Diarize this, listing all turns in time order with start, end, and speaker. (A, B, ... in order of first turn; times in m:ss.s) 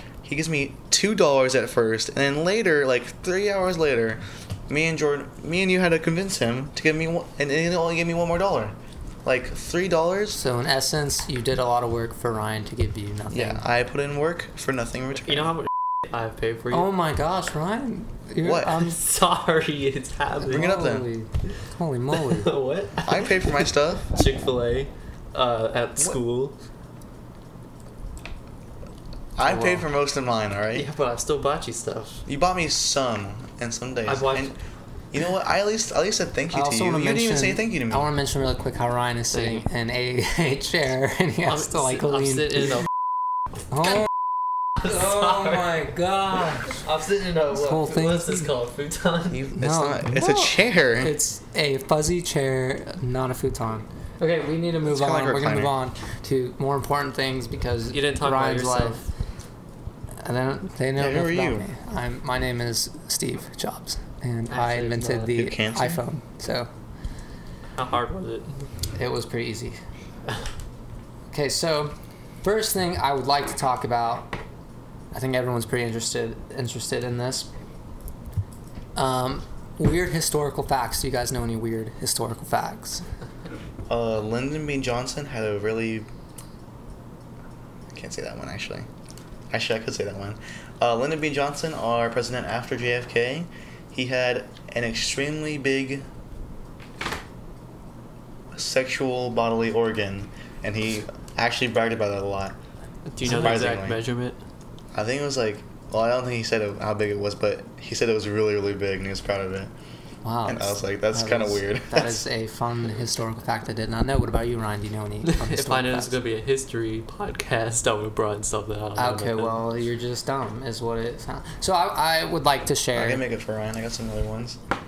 0:00.2-0:10.4 A
0:10.4-0:13.7 B
0:13.3-0:15.6 A
0:15.4-0:16.9 C
0:16.7-0:19.0 B
0:18.4-0:18.7 A
0:18.8-0:20.7 C
0:20.4-0:22.6 B
0:20.5-0:21.1 A
0:22.2-0:26.5 C
0:23.0-0:24.1 A
0:29.4-0:30.9 A
0:29.4-0:29.9 C
0:30.7-0:32.2 C
0:32.2-0:34.6 A
0:34.1-0:34.5 C
0:35.1-0:38.1 A
0:36.5-0:42.5 B
0:39.3-0:39.6 C
0:41.5-0:42.8 C
0:43.7-0:44.0 B
0:44.8-0:46.8 B
0:46.7-0:49.5 C
0:47.5-0:48.5 B
0:49.3-0:51.1 A
0:49.6-0:59.0 B
0:54.8-0:55.8 A
0:57.9-0:59.0 C
1:00.2-1:06.7 B
1:01.0-1:01.7 A
1:04.5-1:05.4 C
1:05.3-1:06.0 A
1:07.8-1:08.5 C
1:08.9-1:09.8 B
1:11.3-1:14.4 B
1:15.1-1:17.5 B
1:19.0-1:23.1 B
1:23.9-1:26.1 A
1:27.9-1:28.9 A
1:29.5-1:36.1 A
1:38.5-1:42.6 A
1:43.1-1:44.4 C
1:43.2-1:44.0 A
1:44.9-1:49.7 A
1:50.2-1:56.1 B
1:50.4-1:52.2 A
1:55.2-1:59.6 C
1:59.0-2:03.2 B
2:02.9-2:04.6 A